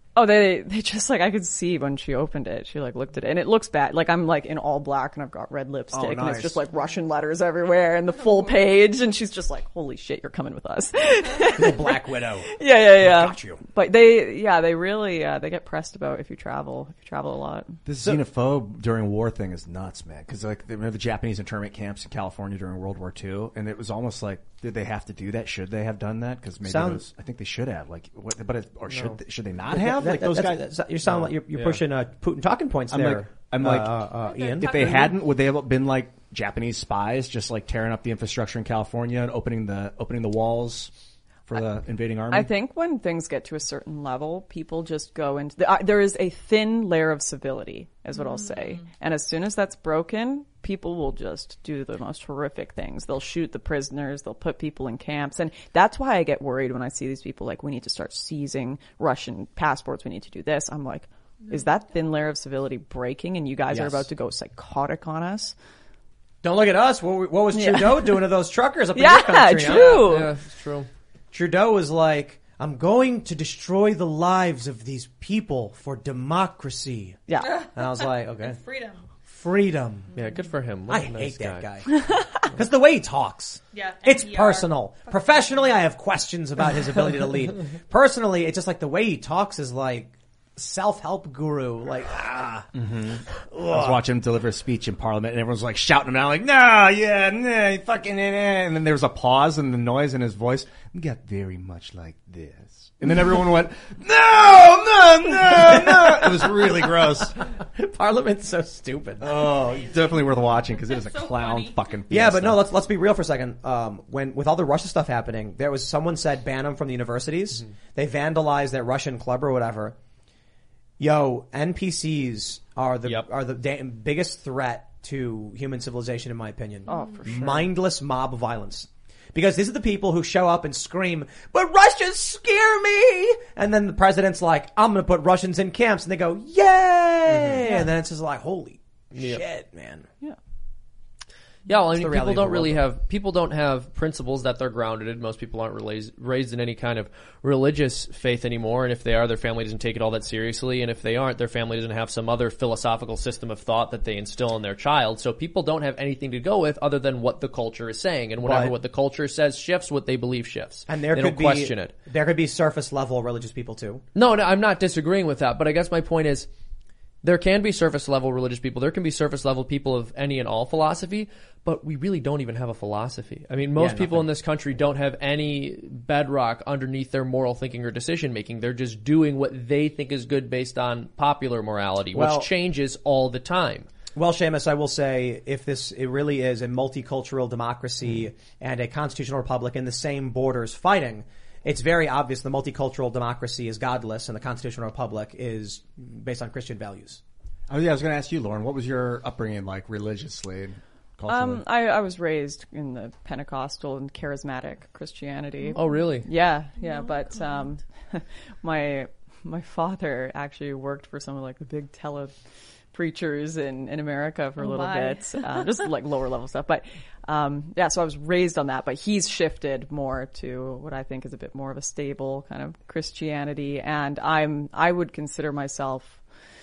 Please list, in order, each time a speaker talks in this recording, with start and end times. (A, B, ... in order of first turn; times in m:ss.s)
0:00.2-0:17.7 A
0:05.9-0:06.6 B
0:11.5-0:13.6 B
0:17.8-0:30.7 C
0:26.6-0:27.0 B
0:28.9-0:29.2 D
0:29.7-0:35.1 B
0:32.9-0:40.9 C
0:34.3-0:35.1 E
0:41.4-0:42.5 C
0:42.3-1:05.5 A
1:03.7-1:04.0 B
1:06.4-1:10.1 B
1:07.5-1:08.3 A
1:08.9-1:10.3 A
1:09.7-1:10.9 D
1:11.3-1:18.6 B
1:17.3-1:17.7 A
1:18.4-1:19.0 E
1:19.2-1:20.1 B
1:20.1-1:21.6 D
1:20.9-1:32.7 B
1:23.7-1:24.7 E
1:32.7-1:47.4 C
1:33.5-1:34.0 B
1:45.7-1:46.3 B
1:47.7-1:49.5 B
1:49.2-1:52.7 C
1:51.0-1:51.7 E
1:52.1-1:59.9 B
2:01.0-2:20.1 B
2:06.9-2:07.7 A
2:19.1-2:19.4 D
2:21.7-2:41.9 D
2:21.9-2:22.8 B
2:38.4-2:38.7 B
2:40.9-2:44.0 B
2:44.2-2:46.5 D
2:47.2-3:03.9 D
2:53.8-2:54.3 B
3:02.1-3:02.5 B
3:04.1-3:17.2 B
3:17.7-3:21.6 C
3:21.3-3:32.3 A
3:25.8-3:26.3 D
3:32.9-3:46.2 A
3:34.6-3:35.6 E